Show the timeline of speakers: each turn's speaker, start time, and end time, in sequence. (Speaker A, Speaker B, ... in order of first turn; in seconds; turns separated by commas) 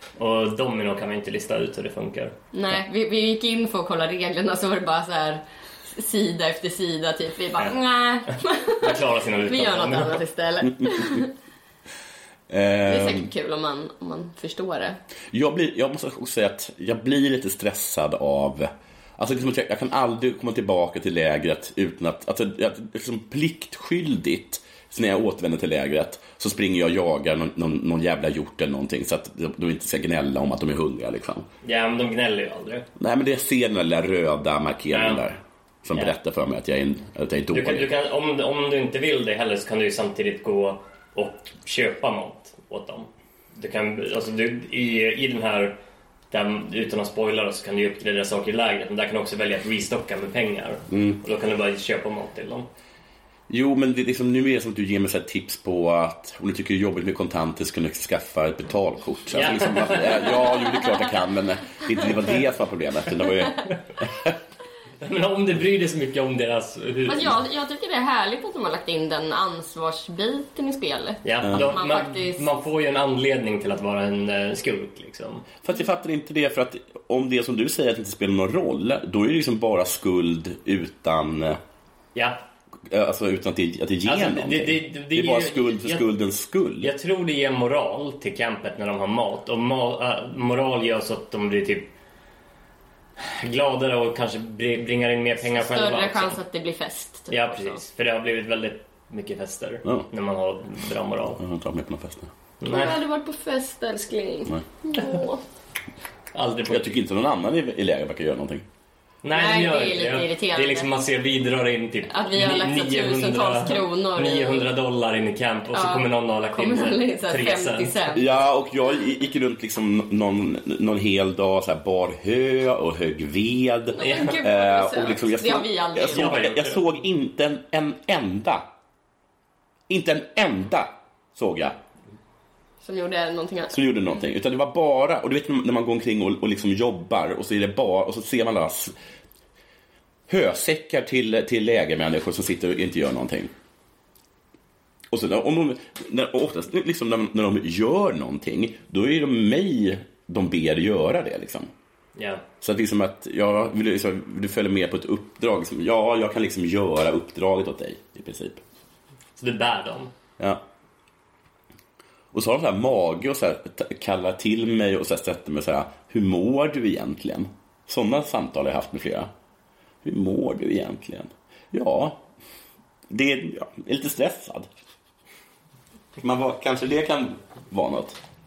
Speaker A: 0.2-2.3, Speaker B: 2.5-11.3, Speaker A: 8.8-10.2, Speaker C: 10.7-11.2, Speaker C: 12.5-13.3, Speaker B: 12.8-15.0, Speaker C: 15.3-31.4, Speaker A: 31.6-32.9, Speaker C: 33.0-37.9, Speaker A: 34.9-35.2, Speaker A: 37.5-45.8, Speaker A: 46.3-52.7, Speaker C: 50.9-51.2, Speaker C: 53.5-64.3, Speaker A: 59.3-61.1, Speaker A: 65.0-67.3, Speaker B: 67.0-72.5, Speaker A: 71.2-75.5, Speaker C: 71.4-71.7, Speaker C: 75.6-81.6, Speaker C: 82.9-86.9, Speaker A: 84.0-86.1, Speaker A: 86.8-91.9, Speaker A: 93.2-96.4, Speaker B: 95.5-97.8, Speaker A: 97.3-101.4, Speaker C: 101.4-102.3, Speaker A: 102.6-103.0, Speaker B: 102.7-105.4, Speaker A: 106.3-106.9, Speaker C: 106.7-108.6, Speaker A: 109.2-118.0, Speaker B: 109.3-110.9, Speaker B: 112.1-114.7, Speaker B: 115.7-118.2, Speaker C: 118.1-128.6, Speaker B: 123.9-126.4, Speaker A: 124.0-124.4, Speaker A: 126.0-126.8, Speaker C: 129.9-131.7, Speaker B: 132.8-133.8, Speaker C: 133.7-138.9, Speaker C: 140.3-143.5, Speaker C: 145.1-151.7, Speaker A: 152.2-152.4, Speaker C: 152.6-158.6, Speaker A: 159.4-160.1, Speaker C: 162.3-169.3, Speaker C: 170.0-172.2, Speaker C: 173.1-174.7, Speaker C: 176.2-178.2